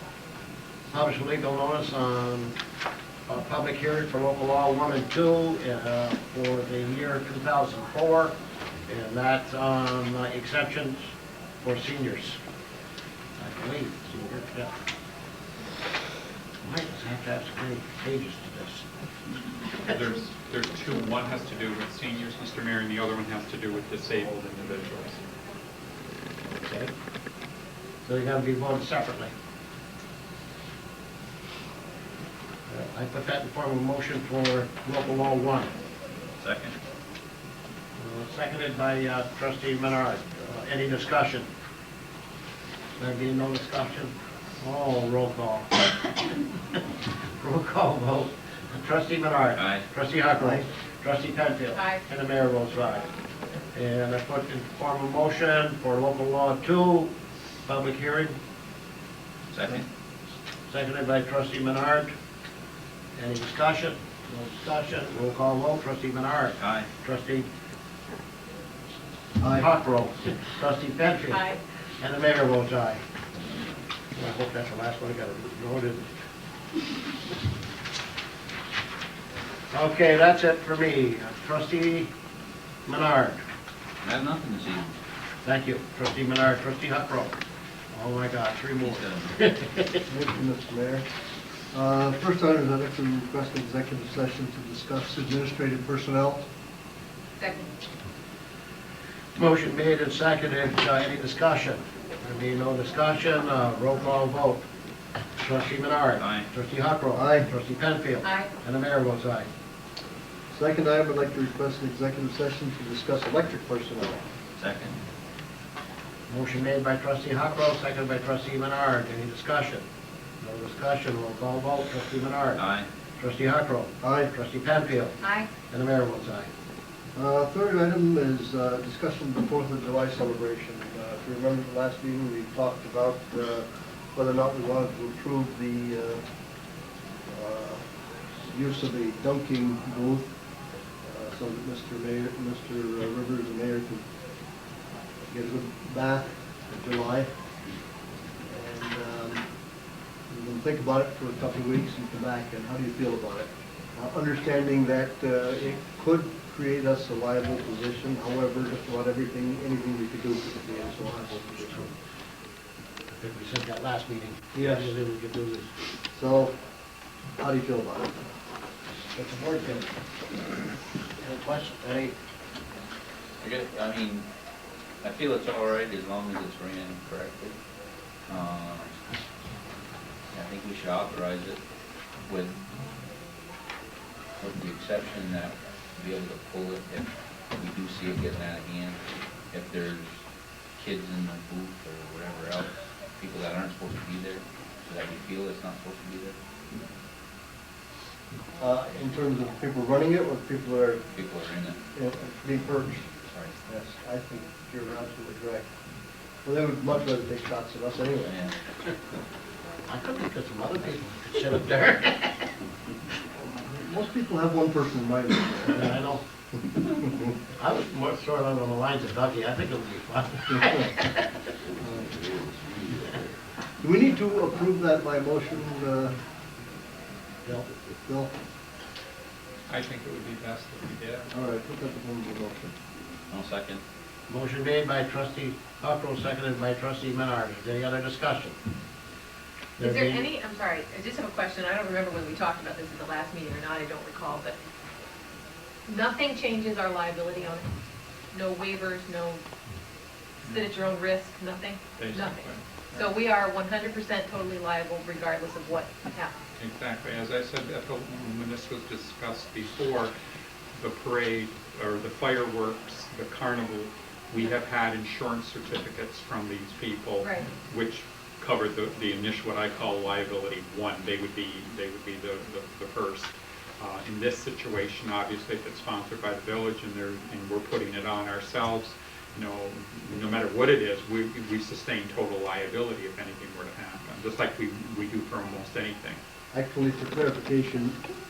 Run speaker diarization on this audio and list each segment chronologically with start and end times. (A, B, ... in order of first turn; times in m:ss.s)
0:00.9-0:02.6 A
0:03.2-0:08.3 A
0:08.9-0:12.4 A
0:13.4-0:14.7 A
0:16.6-0:18.8 A
0:19.9-0:25.2 B
0:26.6-0:26.9 A
0:28.0-0:29.3 A
0:32.7-0:35.7 A
0:36.4-0:36.7 C
0:38.0-0:41.5 A
0:43.0-0:45.9 A
0:47.4-0:53.0 A
0:49.6-0:49.8 C
0:50.4-0:50.6 D
0:51.7-0:52.0 E
0:53.7-0:57.1 A
0:57.6-0:58.4 A
0:59.5-0:59.9 C
1:00.7-1:02.1 A
1:03.1-1:07.5 A
1:06.6-1:06.9 C
1:09.4-1:09.7 D
1:09.5-1:11.4 A
1:11.3-1:11.6 E
1:12.0-1:13.0 A
1:14.1-1:16.1 A
1:19.7-1:22.1 A
1:22.8-1:23.4 A
1:24.0-1:24.9 C
1:25.4-1:27.3 A
1:27.9-1:30.0 A
1:28.8-1:29.3 C
1:30.1-1:31.0 D
1:31.7-1:36.4 D
1:37.4-1:37.7 E
1:39.4-1:44.6 A
1:45.4-1:49.5 A
1:46.2-1:46.5 C
1:47.1-1:47.5 D
1:48.2-1:48.5 E
1:50.5-1:54.2 D
1:54.6-1:55.0 C
1:56.3-1:59.8 A
2:00.4-2:02.6 A
2:02.6-2:02.9 C
2:03.2-2:06.5 A
2:04.0-2:04.3 D
2:05.2-2:05.5 E
2:07.1-2:16.2 D
2:17.3-2:17.8 D
2:18.4-2:20.3 D
2:21.0-2:24.0 D
2:25.3-2:27.3 D
2:28.5-2:29.4 D
2:30.3-2:41.8 D
2:41.3-2:41.9 A
2:43.1-2:45.7 A
2:44.5-2:44.9 D
2:46.1-2:46.5 D
2:47.4-2:48.3 D
2:49.1-2:49.9 A
2:51.2-2:52.1 A
2:53.4-2:54.3 C
2:55.0-2:57.6 C
2:58.2-2:59.0 C
3:00.3-3:01.6 C
3:02.2-3:02.6 C
3:04.4-3:09.0 C
3:09.5-3:10.2 C
3:10.8-3:16.4 C
3:18.6-3:21.0 D
3:21.1-3:21.8 C
3:21.9-3:23.1 D
3:23.3-3:23.5 C
3:23.7-3:25.7 D
3:26.4-3:28.3 D
3:28.2-3:28.6 C
3:29.9-3:32.5 A
3:33.4-3:35.9 D
3:35.7-3:36.2 A
3:37.6-3:41.2 A
3:40.5-3:40.9 D
3:41.8-3:42.3 D
3:43.8-3:46.2 D
3:48.0-3:48.3 D
3:49.7-3:51.3 B
3:51.3-3:52.7 D
3:53.3-3:53.8 C
3:54.3-3:58.6 A
3:59.8-4:00.3 A
3:59.8-4:04.5 E
4:05.9-4:07.7 E
4:08.3-4:09.4 E
4:10.4-4:10.7 B
4:10.4-4:16.3 E
4:12.0-4:13.1 B
4:16.5-4:20.1 B
4:20.7-4:46.2 B
4:27.2-4:27.5 E
4:46.5-4:48.0 D